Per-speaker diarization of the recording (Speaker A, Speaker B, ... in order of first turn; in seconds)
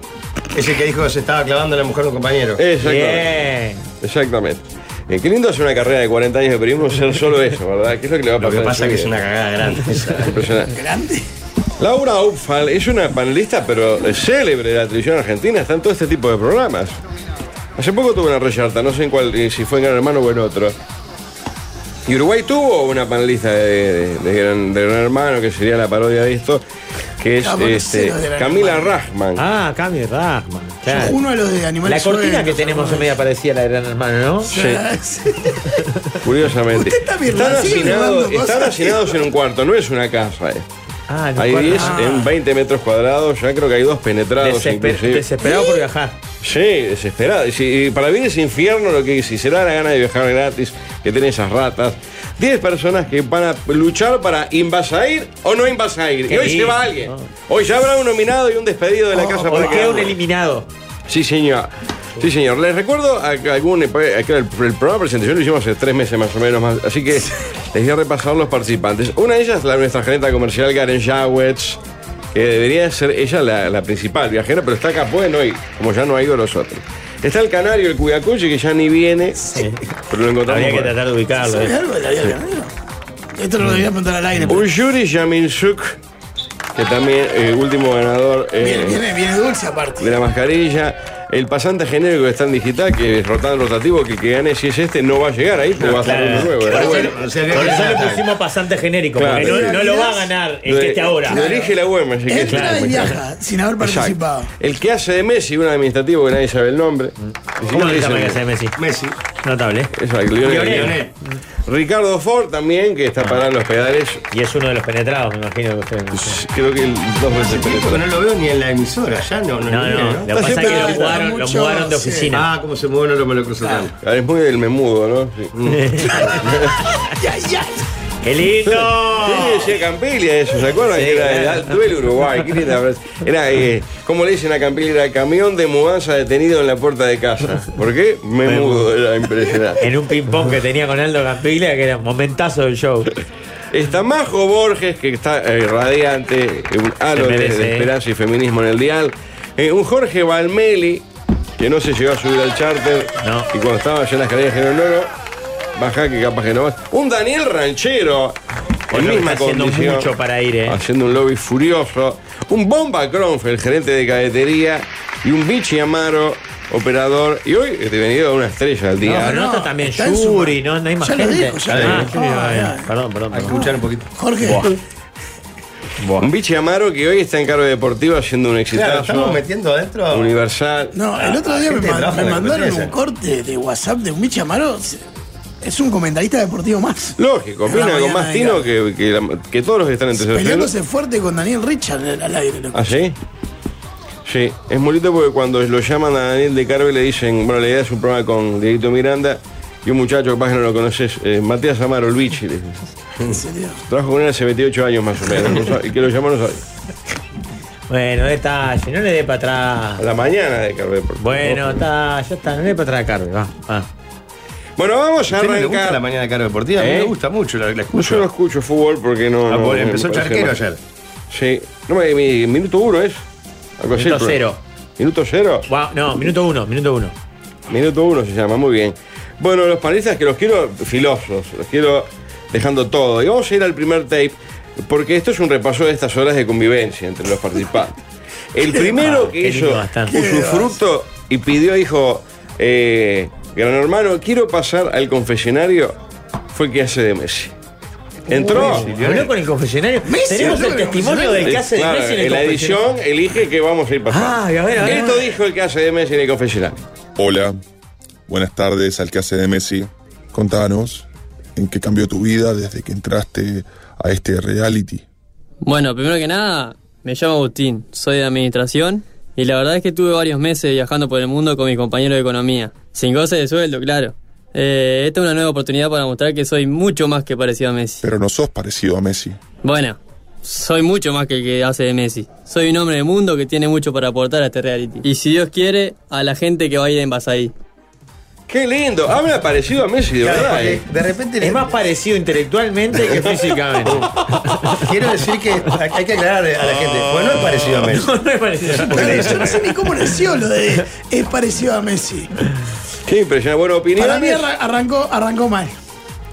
Speaker A: 0.5-2.6, 8.4-10.3, 95.8-98.2, 108.8-109.2, 110.6-111.1, 117.4-121.0, 122.3-123.9, 125.5-126.1, 171.7-172.1, 173.4-174.1, 178.7-180.3, 181.2-182.9, 215.3-218.3, 219.5-220.8, 248.5-249.3, 290.2-291.8, 294.8-298.1, 298.7-299.5
Speaker B: 2.6-3.3, 4.0-9.1, 10.2-10.7, 11.8-16.9, 17.8-20.7, 22.1-26.6, 27.2-29.4, 34.5-34.8, 36.2-40.6, 41.4-45.3, 46.4-60.1, 61.1-71.8, 72.3-79.4, 80.1-80.9, 84.5-86.0, 86.7-89.0, 90.0-97.1, 99.2-99.8, 100.7-103.2, 103.8-108.4, 109.9-111.0, 111.7-114.2, 116.1-118.0, 123.9-125.5, 128.6-139.8, 143.7-151.0, 151.6-155.1, 155.8-158.4, 158.9-160.1, 160.7-169.4, 176.2-179.4, 180.1-180.9, 187.2-190.7, 192.7-193.2, 194.2-202.8, 203.9-206.6, 210.0-211.8, 214.8-216.0, 216.8-217.1, 217.9-220.6, 221.3-223.2, 223.8-224.4, 225.0-225.6, 227.7-237.9, 238.5-245.9, 246.5-247.5, 248.3-248.9, 251.4-256.8, 288.5-290.8, 303.1-304.4
Speaker C: 2.8-3.8, 29.4-31.2, 31.9-34.5, 41.1-42.0, 44.4-46.2, 56.3-57.3, 59.1-60.7, 79.5-79.8, 80.5-81.7, 96.0-101.4, 102.5-102.9, 107.2-108.8, 109.4-111.1, 114.3-116.4, 119.7-122.5, 125.7-126.3, 128.2-129.7, 130.9-131.8, 138.4-138.9, 139.8-143.1, 147.1-147.9, 153.2-153.5, 158.9-160.8, 169.0-173.6, 174.4-174.7, 176.0-176.3, 207.9-210.0, 211.2-213.9, 223.9-224.6, 225.7-227.1, 239.0-240.2, 248.3-252.8, 254.1-255.2, 291.4-294.8, 297.0-299.6
Speaker D: 10.7-11.2, 27.4-29.0, 30.9-33.1, 34.5-35.8, 36.7-39.2, 41.7-42.3, 45.4-45.8, 59.1-60.0, 81.4-82.7, 83.3-84.7, 88.6-90.1, 99.4-100.3, 101.3-101.8, 102.3-104.5, 120.3-122.4, 126.9-127.9, 169.2-172.8, 174.1-174.7, 180.9-185.0, 185.6-188.7, 190.2-193.0, 203.2-203.8, 240.1-240.8, 250.0-251.5, 254.8-255.2, 298.7-302.3, 303.9-305.7
Speaker E: 257.2-257.6, 258.3-265.0, 278.0-279.4
Speaker F: 265.6-278.0, 279.6-287.5